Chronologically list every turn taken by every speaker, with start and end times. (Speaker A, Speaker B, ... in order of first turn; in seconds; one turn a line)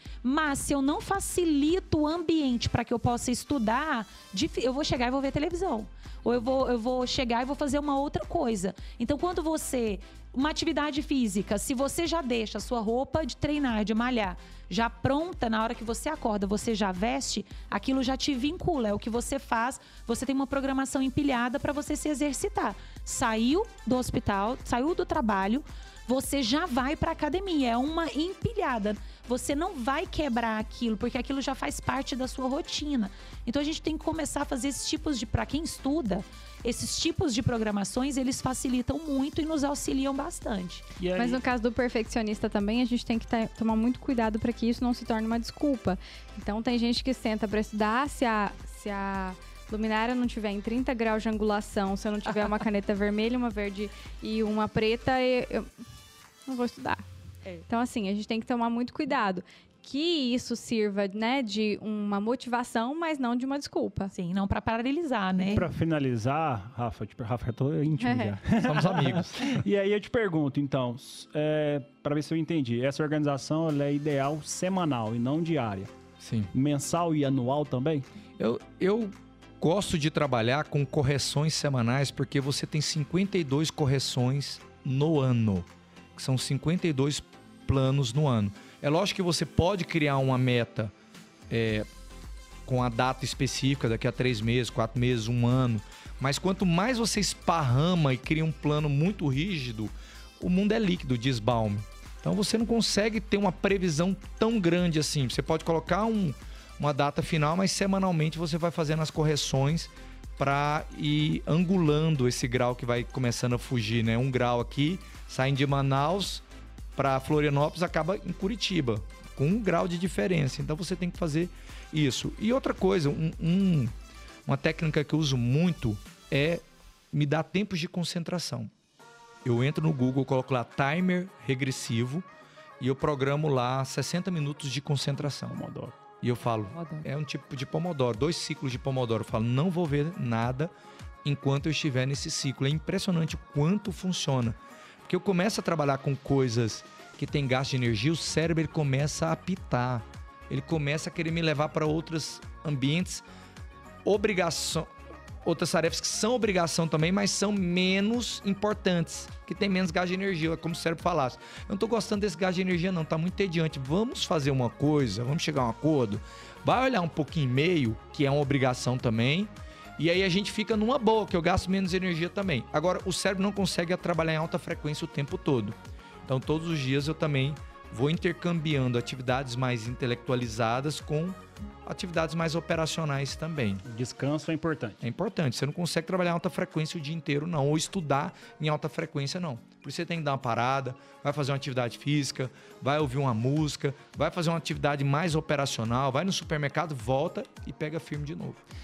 Speaker A: 0.2-40.9
Speaker B: 41.0-41.4
Speaker C: 41.2-55.7
Speaker C: 56.5-57.0
Speaker C: 57.7-64.1
Speaker A: 64.1-65.7
Speaker B: 65.5-75.9
Speaker C: 68.0-68.4
Speaker D: 68.6-69.6
Speaker D: 76.2-76.5
Speaker B: 76.5-78.1
Speaker D: 78.4-90.9
Speaker D: 91.5-91.9
Speaker D: 92.7-116.5
Speaker D: 117.0-123.9
Speaker D: 124.5-128.7
Speaker D: 129.4-132.3
Speaker D: 132.8-135.6
Speaker B: 135.4-136.0
Speaker D: 136.2-140.7
Speaker A: 136.8-137.1
Speaker D: 141.2-153.2
Speaker D: 154.1-154.9
Speaker D: 155.4-183.8
Speaker B: 183.8-185.0
Speaker D: 185.0-198.6